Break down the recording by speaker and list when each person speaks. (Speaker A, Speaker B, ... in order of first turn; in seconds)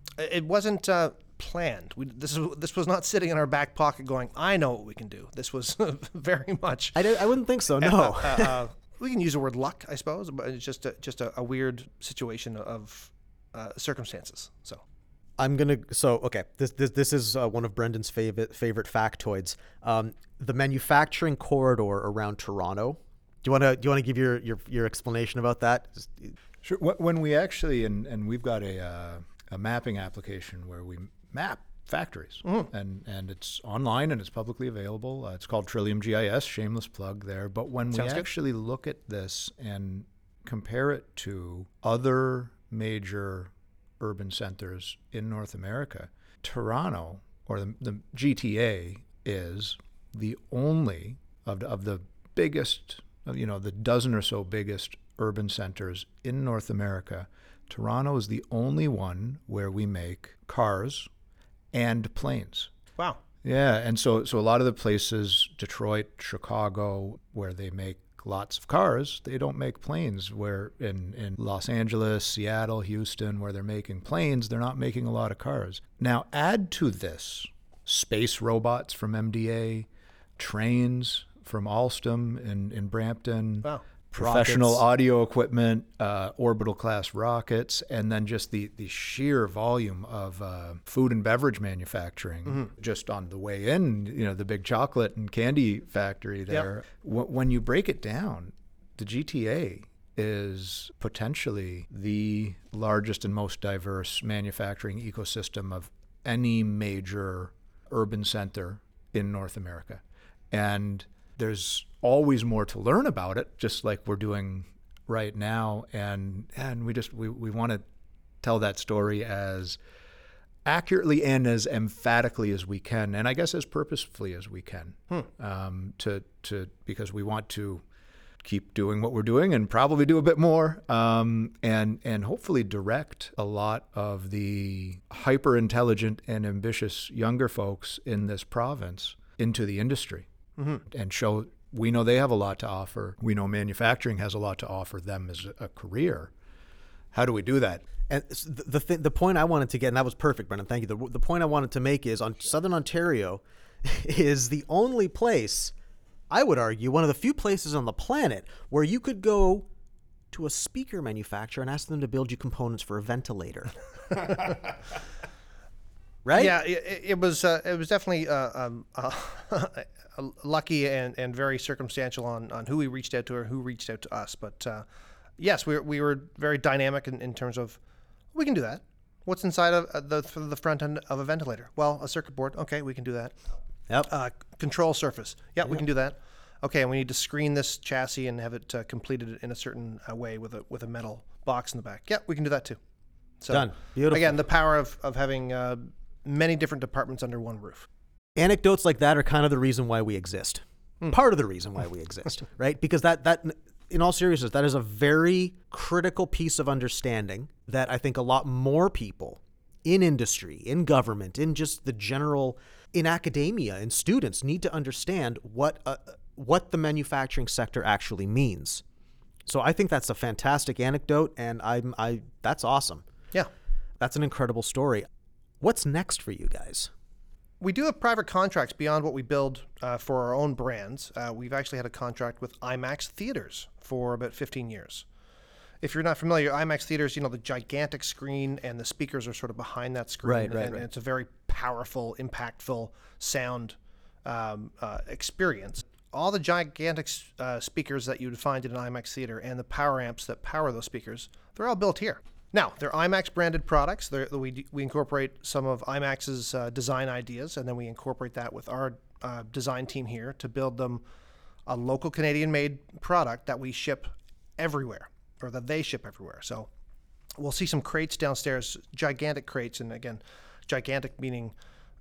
Speaker A: 0.2-7.2, 7.8-14.8, 37.9-38.2, 140.6-140.8, 166.3-174.8, 175.4-177.8, 178.3-183.3, 184.1-192.8, 193.4-197.9, 227.6-235.1, 235.8-261.0, 261.7-266.7, 267.4-271.5
Speaker B: 6.9-8.6, 15.4-26.4, 84.2-84.8, 148.1-155.7, 156.3-159.7, 160.3-163.7, 166.2-166.6, 193.5-194.3, 198.3-218.8, 219.4-223.0, 224.0-225.1, 225.6-226.9, 240.2-240.8
Speaker C: 26.6-61.1, 61.7-62.7, 63.4-117.8, 118.4-119.8, 120.6-127.8, 128.4-140.3, 140.9-146.3, 147.1-147.8